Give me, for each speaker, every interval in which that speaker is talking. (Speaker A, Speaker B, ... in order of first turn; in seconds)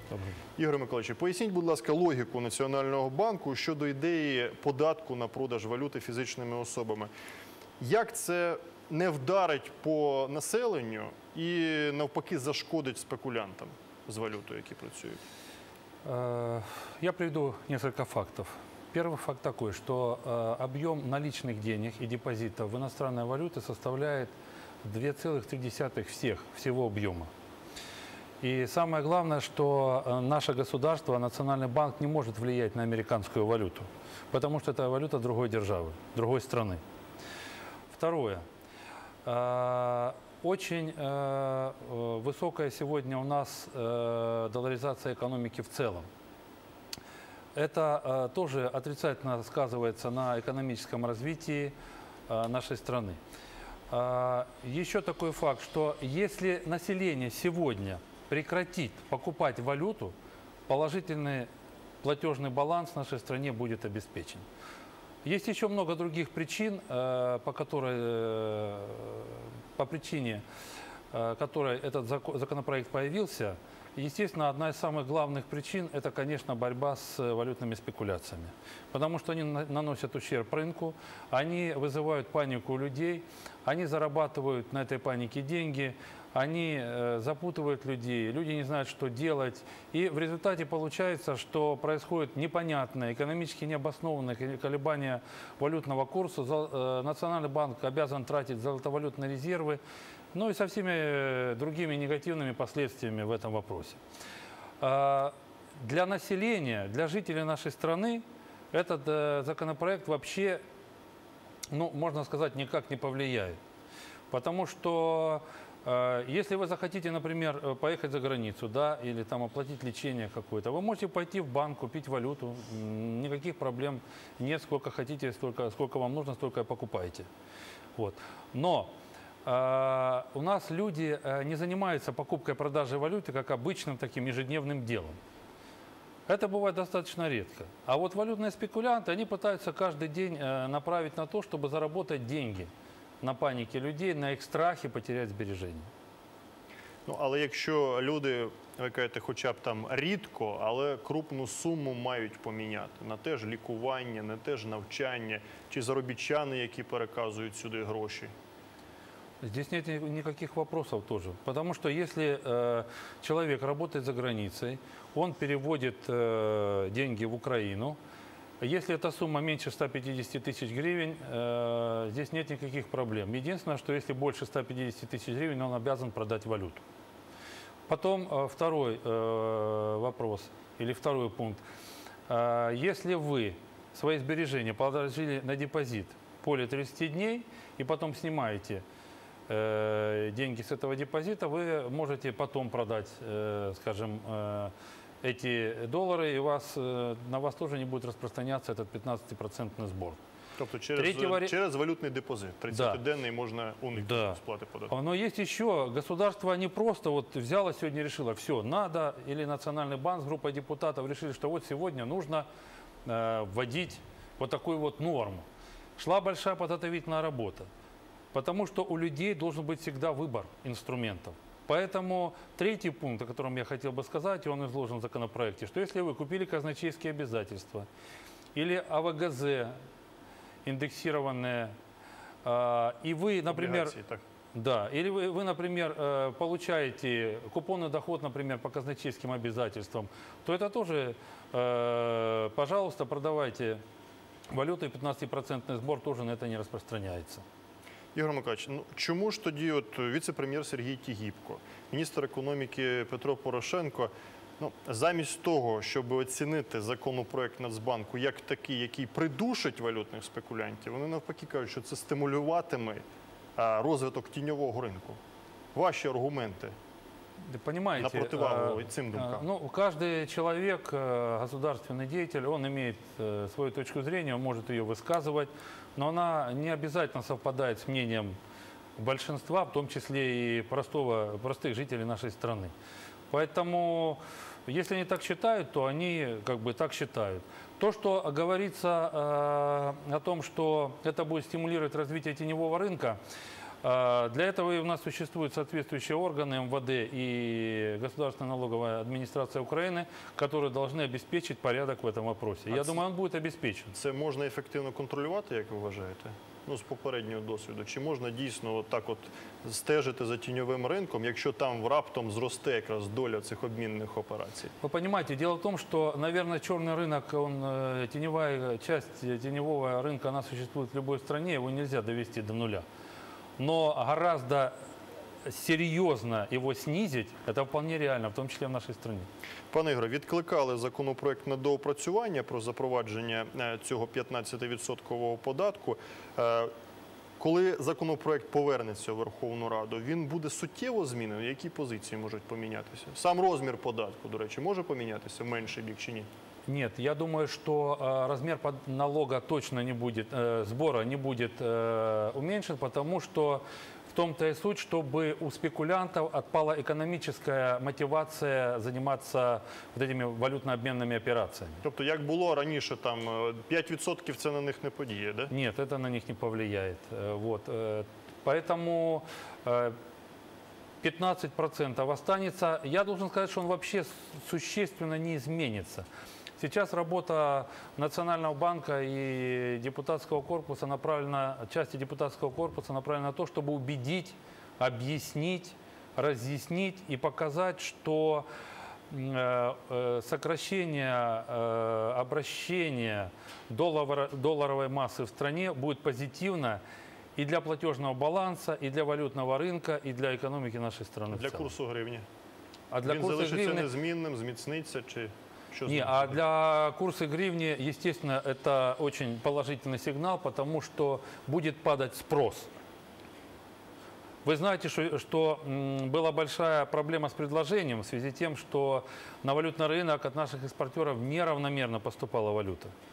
Speaker A: 0.1-0.4, 16.0-24.3, 24.8-27.3, 28.4-36.8, 37.9-38.4, 39.2-46.1, 47.5-51.7, 52.3-53.2, 53.9-60.1, 60.7-61.5, 62.0-64.4, 65.2-70.4, 71.1-99.8, 100.3-104.0, 104.8-110.6, 111.7-113.6, 114.3-127.3, 128.0-128.9, 129.4-135.2, 136.3-142.7, 143.2-145.9, 159.4-168.0, 168.6-176.8, 177.9-181.6, 182.3-188.8, 189.5-200.2, 200.9-201.5, 202.7-203.0, 204.0-204.4, 204.9-212.5, 213.0-215.4, 216.0-217.7, 218.3-227.9, 228.5-229.7, 230.6-231.7, 232.4-233.9, 234.5-243.8, 244.5-247.4, 267.5-278.4, 279.0-282.7, 283.3-293.2, 293.8-303.9, 314.8-322.8, 323.6-324.7, 325.4-329.3, 346.7-361.8, 365.5-370.0, 371.0-376.1, 376.6-388.4, 389.1-396.8, 397.4-401.7, 402.9-403.9, 405.9-412.7, 414.4-422.9
Speaker B: 0.6-7.1, 7.8-15.2, 147.1-158.3, 200.6-204.9, 233.4-234.2, 248.1-263.0, 263.6-265.2, 265.7-266.7, 268.0-269.4, 302.7-303.0, 303.9-314.7, 329.7-336.7, 337.4-346.3, 361.8-365.5, 401.3-402.2, 403.0-406.4